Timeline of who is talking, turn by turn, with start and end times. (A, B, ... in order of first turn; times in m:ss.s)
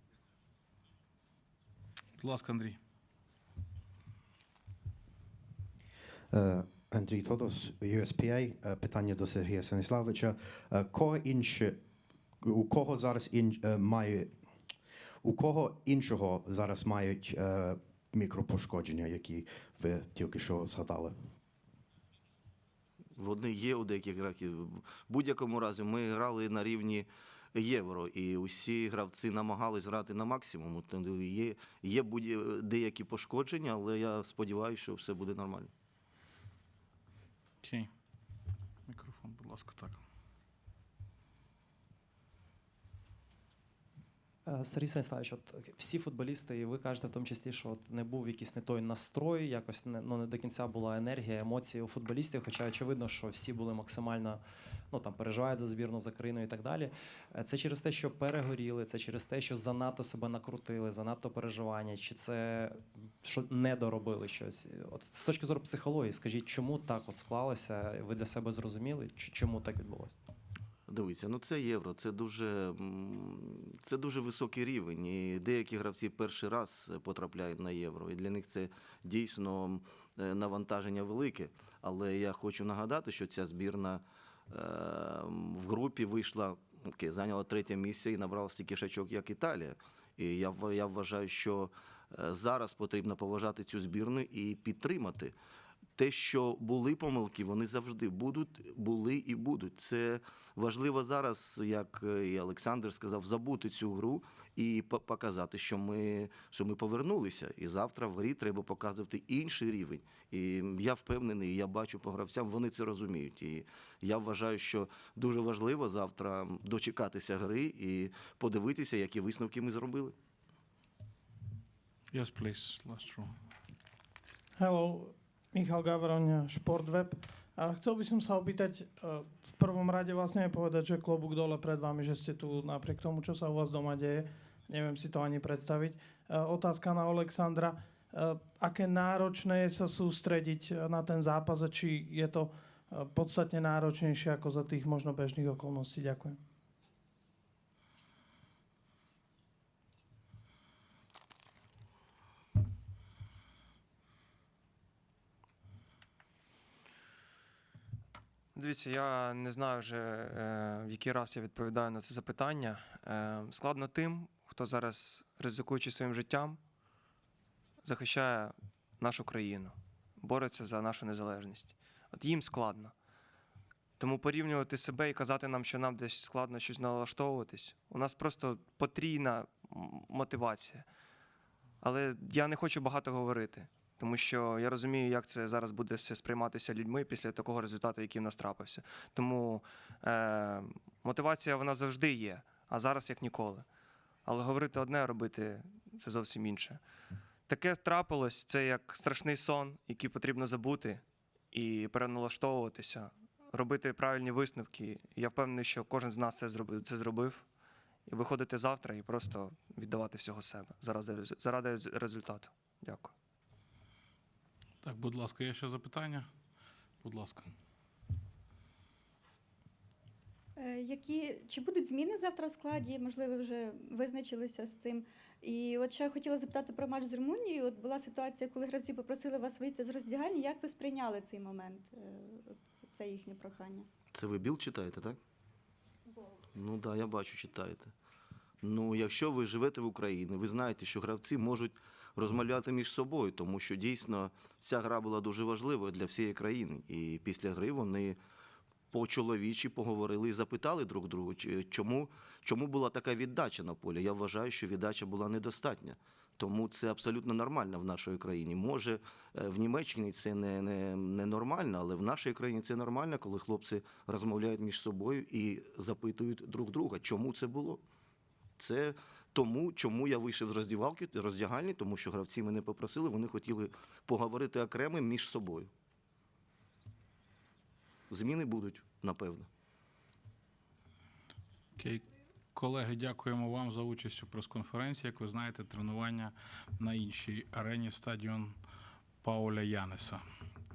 0:02.2-0:02.8 A
0:06.3-0:11.8 B
0:12.4-0:14.3 B
0:15.2-0:21.1 B
0:23.2-0:35.7 C
0:37.6-0:37.9 A
0:38.9-0:40.0 A
0:44.4-1:10.1 D
1:10.9-1:35.3 C
1:36.0-2:00.1 C
2:02.1-2:03.3 A
2:04.6-2:26.4 E
2:38.5-2:46.6 F
2:47.8-2:52.9 F
2:54.0-3:00.9 F
3:01.8-3:13.6 F
3:14.2-3:16.8 F
3:17.5-3:27.4 F
3:28.1-3:33.1 F
3:34.8-3:36.3 A
3:37.0-3:37.5 A
3:40.6-3:53.9 G
3:54.1-3:55.2 C
3:56.5-3:57.9 C
3:58.6-4:08.2 C
4:08.9-4:27.8 C
4:28.6-4:35.7 C
4:38.1-4:39.5 C
4:41.8-4:48.6 A
4:49.2-4:50.2 A